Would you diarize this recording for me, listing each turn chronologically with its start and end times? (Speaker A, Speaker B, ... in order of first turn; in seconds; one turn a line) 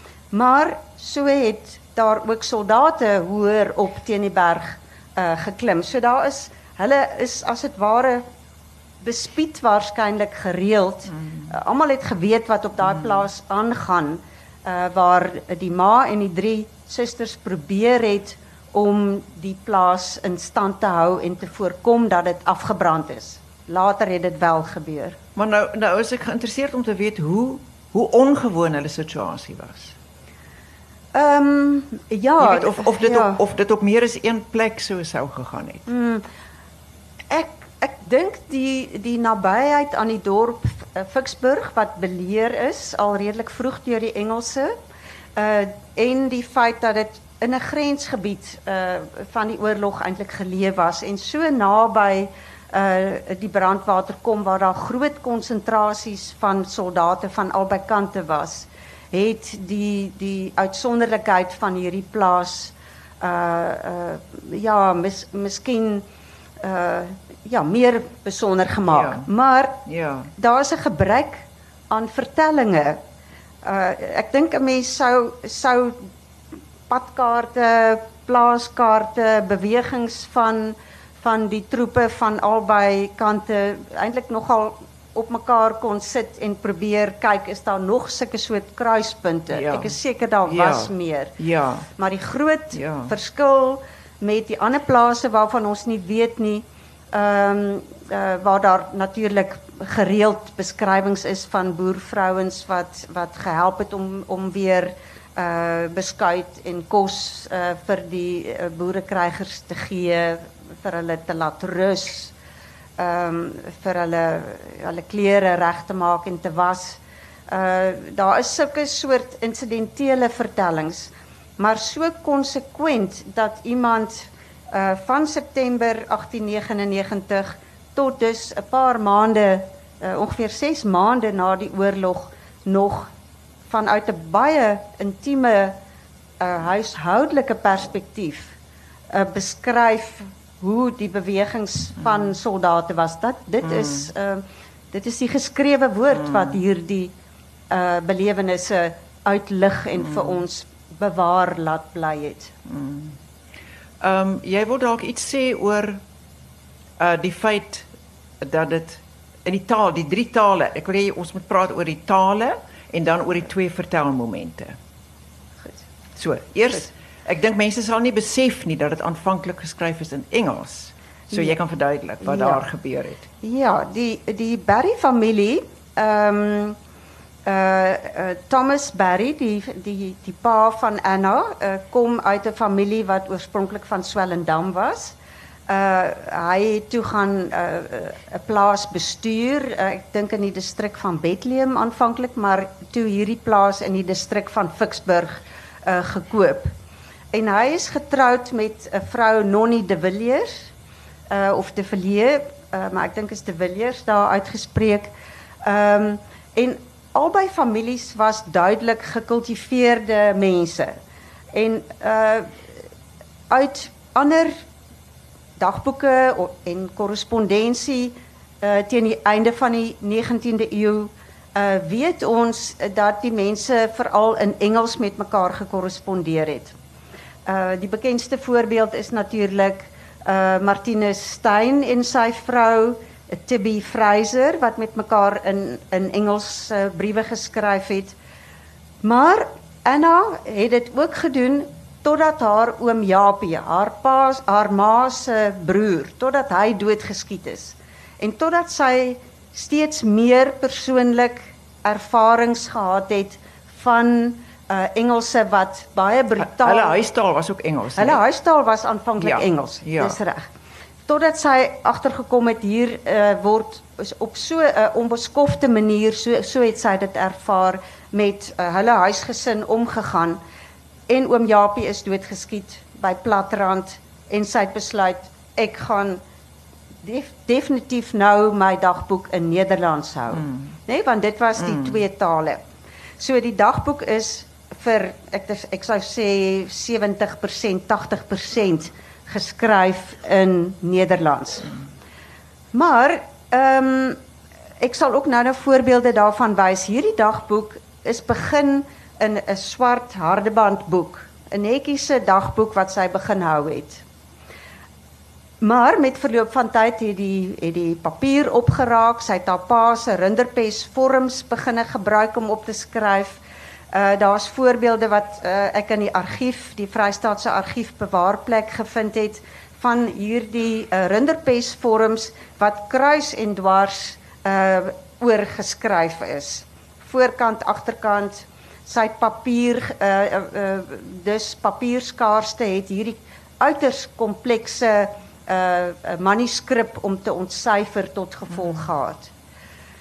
Speaker A: 0.3-8.2
Speaker A: 9.0-25.2
Speaker B: 25.4-30.0
Speaker A: 31.1-33.4
Speaker B: 32.4-35.9
Speaker A: 35.9-36.3
Speaker A: 37.3-44.7
Speaker A: 45.4-66.0
Speaker A: 66.6-69.8
Speaker B: 68.9-69.3
Speaker B: 69.9-70.3
Speaker A: 70.4-73.0
Speaker A: 73.6-76.1
Speaker A: 76.9-91.4
Speaker B: 89.5-91.9
Speaker A: 92.0-112.3
Speaker B: 92.7-93.1
Speaker A: 113.0-133.1
Speaker A: 133.7-135.8
Speaker A: 136.4-138.5
Speaker A: 139.1-147.1
Speaker B: 143.6-144.1
Speaker B: 146.2-146.6
Speaker A: 147.7-152.5
Speaker B: 152.7-153.2
Speaker B: 154.0-156.0
Speaker B: 157.0-157.9
Speaker B: 158.4-164.8
Speaker B: 166.2-173.3
Speaker A: 171.3-171.6
Speaker A: 172.2-172.6
Speaker A: 173.4-176.8
Speaker A: 177.5-185.2
Speaker A: 185.7-196.7
Speaker A: 197.3-200.7
Speaker A: 201.3-205.1
Speaker A: 205.6-210.9
Speaker A: 211.5-212.5
Speaker A: 213.5-214.5
Speaker A: 215.6-226.8
Speaker A: 227.5-238.2
Speaker A: 239.0-257.0
Speaker B: 256.4-258.2
Speaker A: 258.0-260.5
Speaker B: 259.2-260.2
Speaker A: 261.1-270.4
Speaker A: 271.1-276.2
Speaker A: 277.0-282.6
Speaker B: 280.4-280.6
Speaker B: 281.6-282.0
Speaker A: 283.2-291.8
Speaker A: 292.7-294.2
Speaker A: 294.8-304.0
Speaker A: 305.6-313.4
Speaker A: 313.9-339.3